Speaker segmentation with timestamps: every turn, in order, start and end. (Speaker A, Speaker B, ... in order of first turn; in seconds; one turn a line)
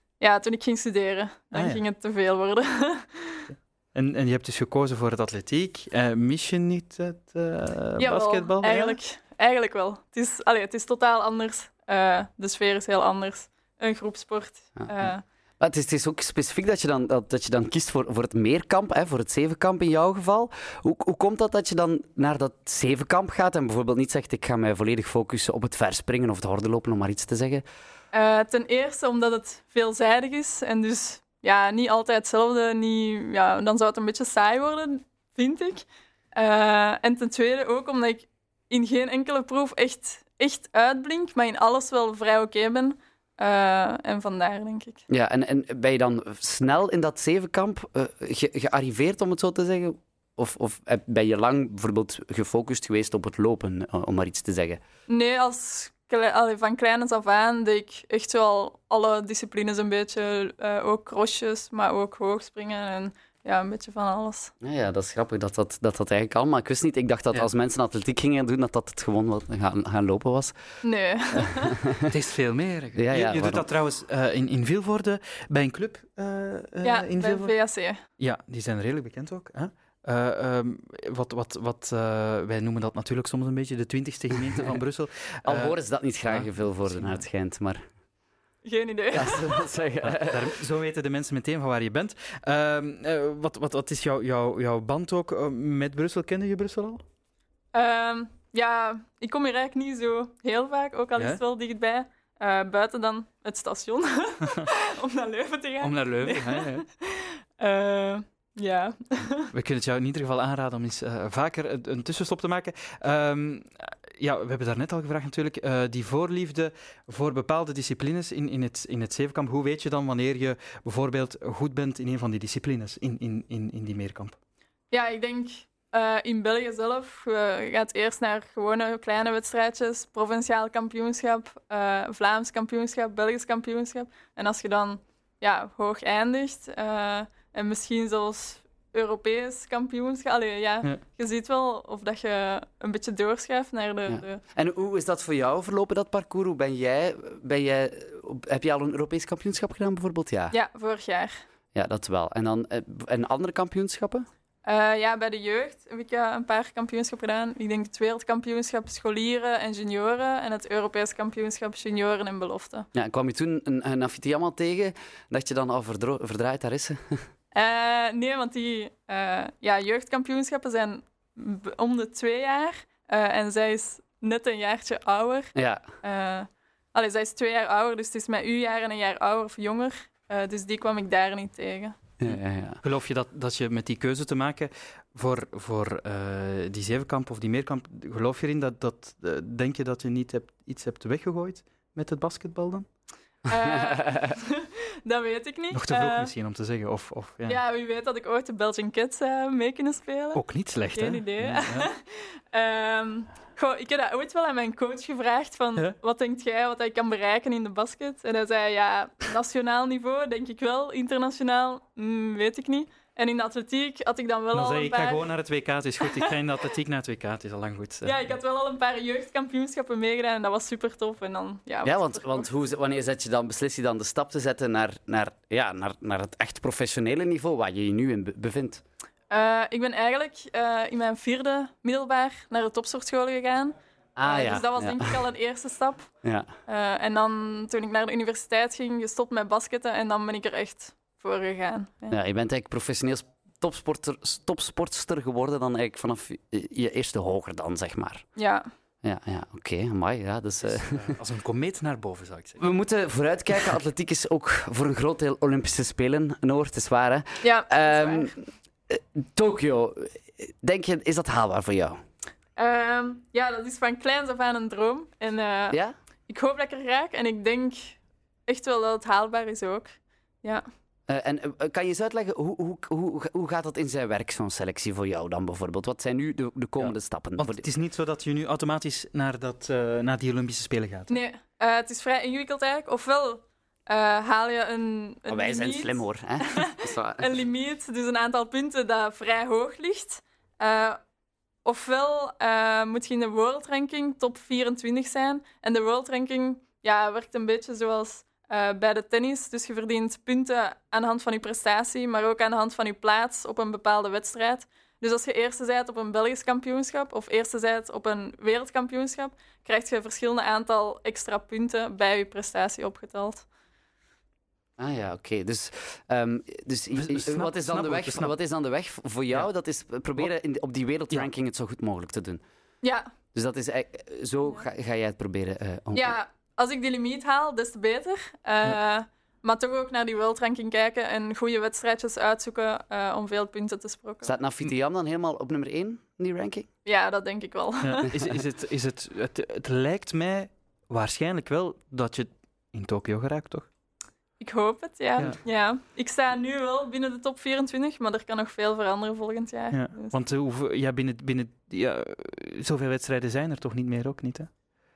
Speaker A: 0.2-3.4
Speaker B: 1.5-1.8
Speaker B: 3.5-9.0
Speaker A: 8.0-15.2
Speaker C: 14.8-27.6
Speaker A: 28.1-45.0
Speaker C: 45.1-54.8
Speaker A: 55.1-64.5
Speaker C: 64.6-70.5
Speaker A: 70.8-71.8
Speaker C: 71.3-72.1
Speaker B: 72.1-77.5
Speaker C: 73.0-73.7
Speaker A: 76.8-78.0
Speaker B: 78.2-87.2
Speaker C: 85.4-87.8
Speaker A: 88.6-89.6
Speaker C: 89.1-90.5
Speaker B: 90.0-97.0
Speaker A: 97.7-109.5
Speaker B: 105.8-106.8
Speaker B: 109.5-124.3
Speaker A: 124.9-144.4
Speaker C: 144.1-150.5
Speaker A: 150.5-151.4
Speaker C: 151.7-154.3
Speaker A: 154.6-162.9
Speaker C: 162.9-167.2
Speaker A: 167.5-182.0
Speaker C: 175.6-175.8
Speaker C: 182.2-182.8
Speaker B: 182.8-192.9
Speaker A: 193.5-196.3
Speaker C: 193.9-194.3
Speaker B: 195.7-197.6
Speaker A: 197.5-215.2
Speaker B: 200.3-201.9
Speaker B: 214.5-218.3
Speaker A: 216.0-216.3
Speaker A: 218.0-222.5
Speaker C: 221.8-228.8
Speaker A: 229.3-236.1
Speaker C: 234.2-235.2
Speaker C: 236.2-236.5
Speaker A: 236.7-242.2
Speaker C: 242.1-248.2
Speaker A: 248.4-248.7
Speaker C: 249.0-251.2
Speaker B: 250.7-252.6
Speaker C: 252.6-258.3
Speaker A: 257.4-258.4
Speaker C: 258.9-262.0
Speaker A: 262.6-267.9
Speaker A: 268.5-269.9
Speaker C: 271.1-277.7
Speaker B: 276.8-281.1
Speaker A: 281.1-291.0
Speaker C: 285.3-287.4
Speaker A: 291.6-313.4
Speaker C: 314.8-322.4
Speaker B: 316.9-318.3
Speaker A: 322.8-323.1
Speaker C: 323.3-326.2
Speaker A: 325.9-334.3
Speaker C: 334.2-336.7
Speaker A: 336.9-338.1
Speaker B: 337.8-343.7
Speaker A: 344.4-350.1
Speaker B: 349.7-354.5